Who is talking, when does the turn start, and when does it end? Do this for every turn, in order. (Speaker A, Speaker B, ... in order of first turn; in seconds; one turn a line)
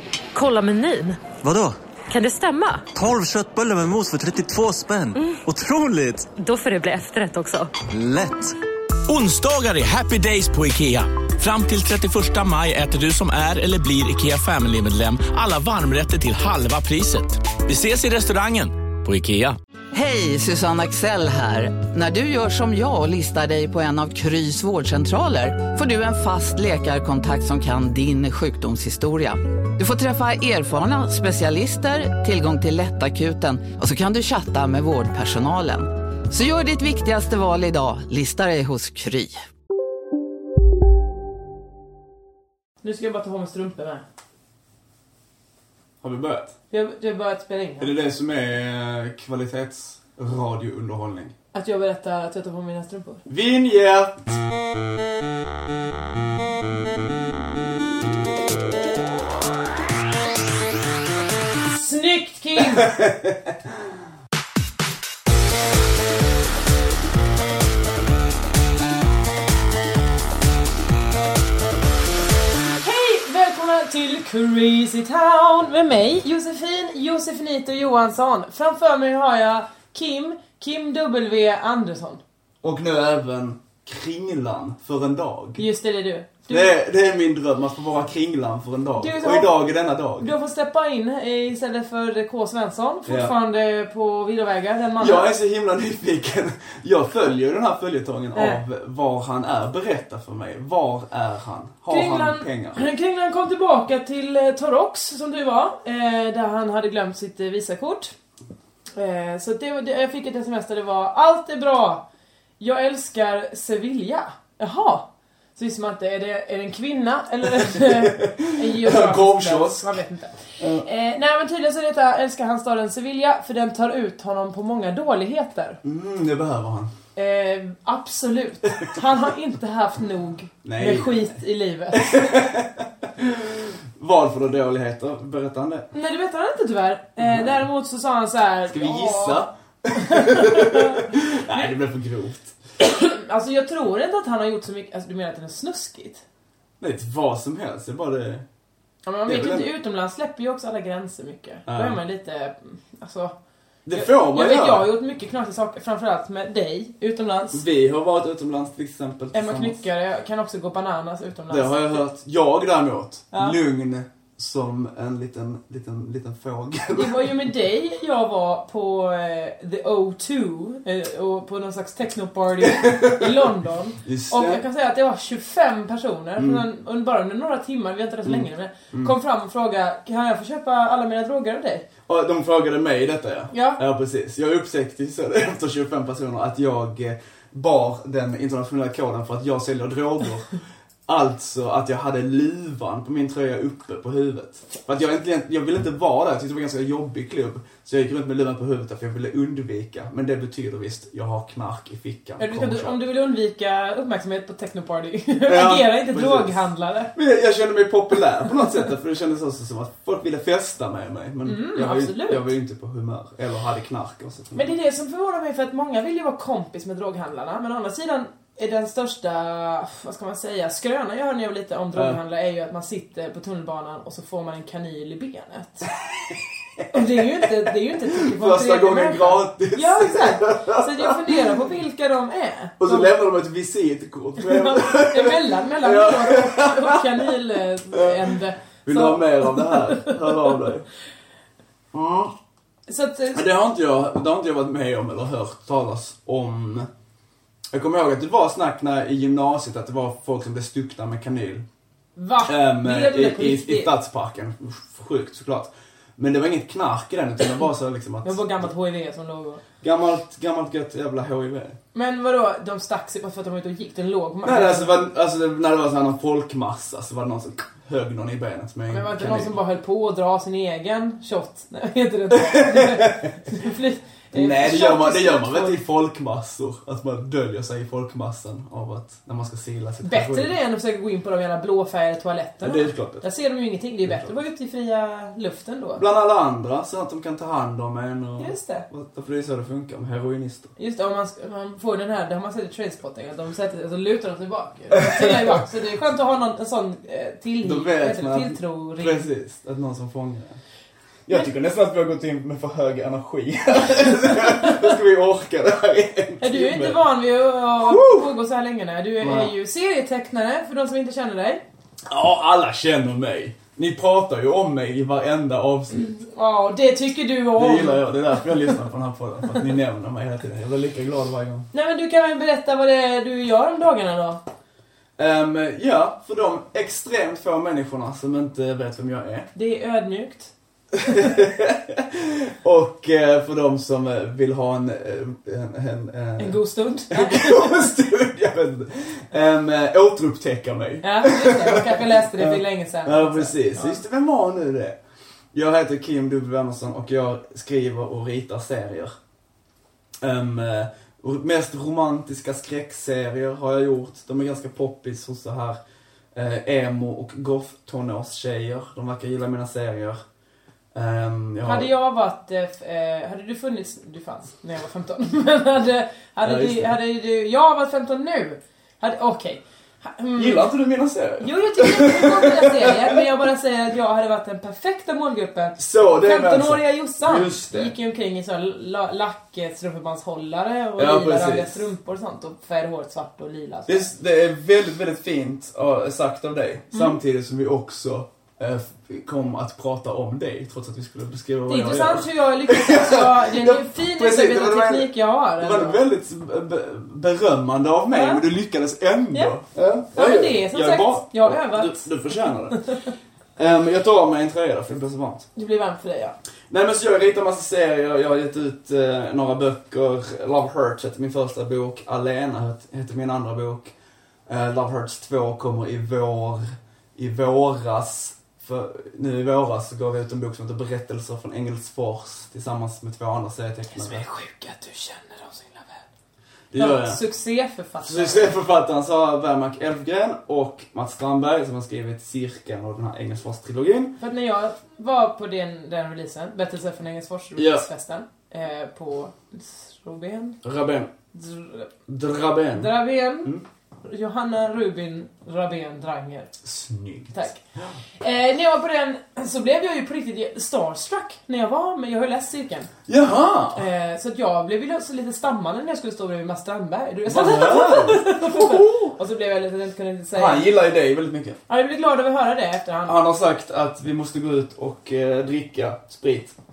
Speaker A: 0.3-1.3
Speaker B: 1.4-1.8
Speaker A: 2.1-2.9
Speaker B: 2.9-6.3
Speaker A: 6.3-7.7
Speaker B: 7.9-8.6
Speaker C: 9.1-19.6
Speaker D: 19.9-39.4
Speaker E: 42.8-44.0
Speaker F: 46.0-46.5
Speaker E: 46.7-47.9
Speaker F: 47.8-51.3
Speaker E: 51.5-53.2
Speaker F: 53.3-54.3
Speaker E: 61.6-62.9
Speaker F: 62.6-63.5
Speaker E: 72.7-82.2
Speaker F: 82.6-85.6
Speaker E: 85.6-86.7
Speaker F: 86.5-90.3
Speaker E: 89.0-89.5
Speaker E: 90.2-95.3
Speaker F: 93.1-93.3
Speaker F: 95.0-102.8
Speaker E: 98.3-98.6
Speaker E: 101.9-108.1
Speaker E: 109.0-112.0
Speaker E: 112.6-125.8
Speaker F: 117.6-119.9
Speaker F: 120.6-120.8
Speaker F: 125.8-126.9
Speaker E: 127.2-132.5
Speaker F: 130.6-131.4
Speaker F: 131.9-135.9
Speaker E: 135.9-139.4
Speaker F: 137.2-137.6
Speaker F: 138.7-142.6
Speaker E: 139.9-141.2
Speaker E: 142.8-146.2
Speaker F: 146.8-148.4
Speaker E: 149.0-153.3
Speaker F: 149.2-149.7
Speaker F: 151.7-152.0
Speaker F: 153.8-154.9
Speaker E: 153.9-157.6
Speaker F: 157.5-159.8
Speaker E: 159.3-162.0
Speaker F: 161.5-167.4
Speaker E: 163.3-163.6
Speaker E: 166.9-181.8
Speaker F: 172.6-173.5
Speaker F: 174.0-174.6
Speaker F: 176.4-176.6
Speaker F: 178.2-179.1
Speaker F: 182.1-190.5
Speaker E: 183.5-183.8
Speaker F: 191.1-203.0
Speaker E: 202.4-207.1
Speaker F: 205.4-206.6
Speaker F: 207.1-214.7
Speaker E: 211.4-212.5
Speaker E: 214.5-225.9
Speaker E: 226.9-233.1
Speaker F: 228.1-231.3
Speaker F: 232.8-237.3
Speaker E: 234.4-240.5
Speaker F: 237.9-240.9
Speaker F: 241.9-242.3
Speaker E: 242.9-243.4
Speaker F: 243.3-246.9
Speaker F: 247.7-251.7
Speaker E: 252.2-253.9
Speaker F: 252.4-258.7
Speaker E: 258.2-259.6
Speaker F: 259.8-261.8
Speaker E: 261.9-265.0
Speaker F: 264.4-269.6
Speaker E: 268.9-275.8
Speaker F: 272.3-273.4
Speaker F: 274.3-280.5
Speaker E: 280.0-286.0
Speaker F: 282.6-283.2
Speaker F: 284.0-284.3
Speaker F: 285.9-290.7
Speaker E: 288.4-288.8
Speaker E: 290.8-299.3
Speaker F: 294.9-295.6
Speaker F: 297.6-300.6
Speaker F: 301.2-307.0
Speaker E: 304.4-304.7
Speaker E: 306.4-311.6
Speaker F: 307.8-308.3
Speaker F: 309.2-309.5
Speaker F: 312.1-316.1
Speaker E: 316.1-318.5
Speaker F: 317.6-321.7
Speaker E: 321.7-324.4
Speaker F: 325.2-329.5
Speaker E: 329.5-330.5
Speaker F: 331.0-336.6
Speaker E: 336.4-337.9
Speaker F: 337.1-345.0
Speaker E: 341.0-344.0
Speaker F: 345.5-349.1
Speaker F: 350.2-355.8
Speaker F: 356.3-360.2
Speaker F: 360.9-361.9
Speaker E: 361.6-370.7
Speaker F: 366.4-366.9
Speaker F: 370.4-373.2
Speaker E: 371.4-384.1
Speaker F: 375.8-377.9
Speaker F: 381.0-381.9
Speaker F: 383.9-402.8
Speaker E: 386.9-387.2
Speaker E: 391.7-396.0
Speaker E: 398.1-398.4
Speaker E: 400.1-402.1
Speaker E: 402.7-403.1
Speaker F: 403.6-405.5
Speaker E: 405.5-406.4
Speaker F: 406.7-413.9
Speaker F: 414.5-424.2
Speaker E: 423.9-426.0
Speaker F: 426.7-427.2
Speaker E: 426.8-428.6
Speaker F: 428.0-434.1
Speaker E: 434.2-440.6
Speaker F: 437.6-437.9
Speaker F: 440.6-441.1
Speaker E: 441.3-441.9
Speaker F: 442.1-442.9
Speaker E: 442.7-443.5
Speaker E: 444.0-446.5
Speaker F: 446.6-447.9
Speaker E: 447.3-447.6
Speaker E: 448.2-452.9
Speaker F: 453.1-453.9
Speaker E: 453.8-460.7
Speaker F: 457.2-459.1
Speaker F: 460.3-461.6
Speaker E: 461.7-463.2
Speaker F: 463.1-466.5